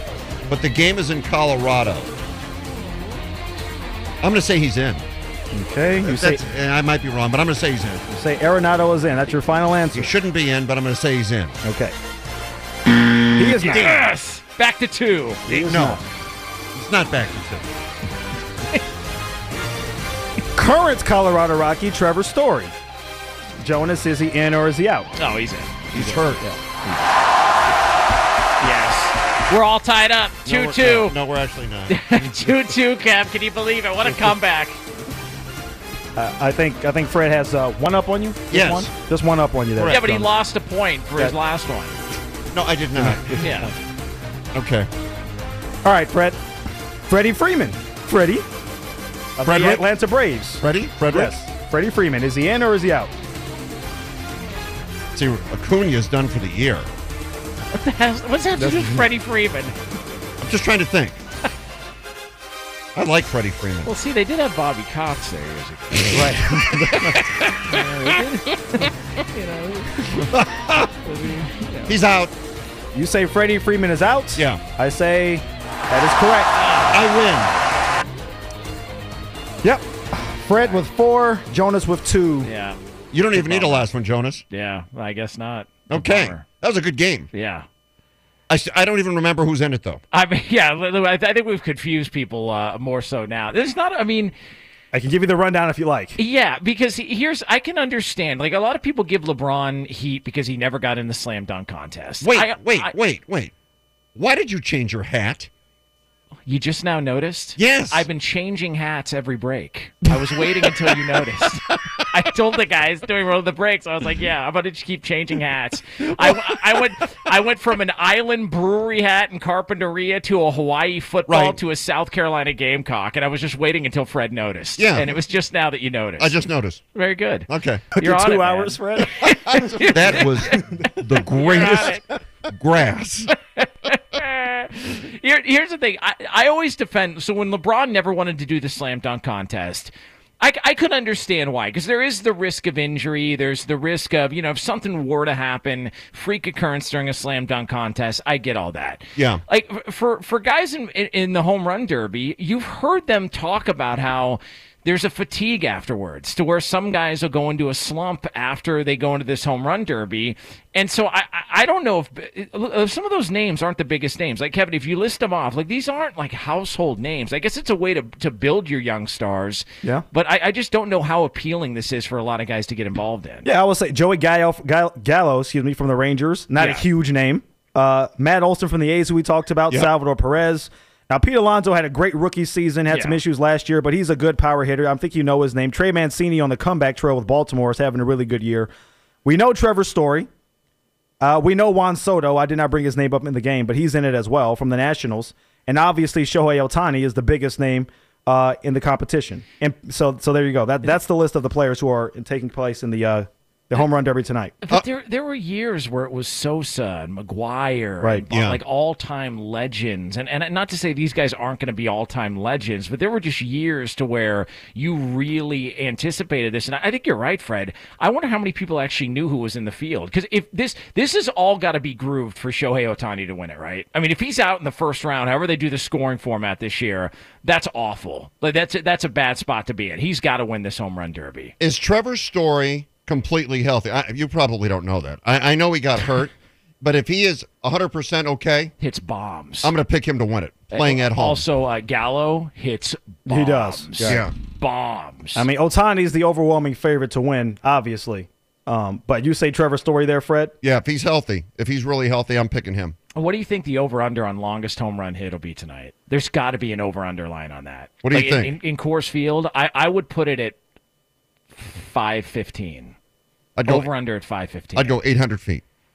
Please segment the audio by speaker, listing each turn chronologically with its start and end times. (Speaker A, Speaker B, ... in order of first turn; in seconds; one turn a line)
Speaker A: 0.5-2.1
Speaker A: 4.2-5.1
Speaker B: 5.5-6.4
Speaker A: 6.0-8.0
Speaker B: 8.1-10.1
Speaker A: 9.9-11.6
Speaker B: 11.6-11.9
Speaker B: 13.4-13.9
Speaker C: 13.6-15.5
Speaker A: 13.6-14.0
Speaker B: 15.5-16.0
Speaker A: 15.5-16.0
Speaker A: 16.7-17.8
Speaker B: 20.6-22.7
Speaker B: 23.6-25.1
Speaker C: 25.1-27.1
Speaker A: 25.9-26.4
Speaker C: 28.6-31.2
Speaker A: 30.4-32.1
Speaker C: 31.9-34.8
Speaker B: 36.1-40.3
Speaker A: 38.5-38.9
Speaker A: 39.7-40.0
Speaker C: 39.9-42.0
Speaker A: 42.5-43.5
Speaker B: 43.0-43.7
Speaker C: 43.4-43.7
Speaker A: 44.5-44.9
Speaker B: 45.8-46.4
Speaker B: 47.1-48.5
Speaker B: 49.4-53.1
Speaker A: 49.4-49.9
Speaker A: 50.6-51.4
Speaker A: 55.1-56.9
Speaker C: 57.7-59.8
Speaker B: 58.6-59.0
Speaker A: 60.4-61.2
Speaker A: 62.9-63.9
Speaker C: 63.8-66.3
Speaker B: 66.1-67.2
Speaker C: 66.9-70.2
Speaker A: 70.2-70.9
Speaker C: 71.0-72.0
Speaker A: 71.9-72.3
Speaker B: 72.9-76.5
Speaker A: 74.4-74.6
Speaker C: 76.5-77.1
Speaker A: 76.9-77.5
Speaker B: 79.6-82.5
Speaker C: 80.6-80.8
Speaker C: 82.4-82.8
Speaker A: 83.1-84.4
Speaker C: 83.3-83.9
Speaker C: 84.5-86.5
Speaker A: 85.9-87.3
Speaker C: 87.3-87.7
Speaker A: 88.5-90.0
Speaker C: 90.1-94.3
Speaker B: 94.9-96.2
Speaker C: 96.2-102.9
Speaker A: 102.2-103.5
Speaker A: 104.1-105.5
Speaker C: 106.5-126.4
Speaker A: 107.6-108.1
Speaker A: 121.3-121.6
Speaker A: 124.8-125.2
Speaker A: 126.2-126.8
Speaker C: 126.9-130.6
Speaker A: 127.5-127.9
Speaker B: 128.0-130.0
Speaker A: 129.5-133.3
Speaker C: 131.2-132.1
Speaker C: 133.6-173.5
Speaker A: 149.2-149.4
Speaker B: 173.4-188.7
Speaker C: 176.6-176.9
Speaker C: 182.9-183.2
Speaker B: 189.2-190.3
Speaker B: 191.2-204.6
Speaker C: 204.6-231.5
Speaker A: 208.3-208.6
Speaker A: 231.6-238.7
Speaker C: 238.8-239.7
Speaker A: 239.6-241.4
Speaker C: 240.7-245.5
Speaker B: 243.3-244.2
Speaker A: 244.1-244.3
Speaker B: 245.4-250.6
Speaker A: 250.6-253.0
Speaker C: 253.1-260.6
Speaker A: 258.0-258.6
Speaker C: 261.5-262.9
Speaker A: 263.6-263.9
Speaker C: 263.6-265.0
Speaker A: 264.7-265.6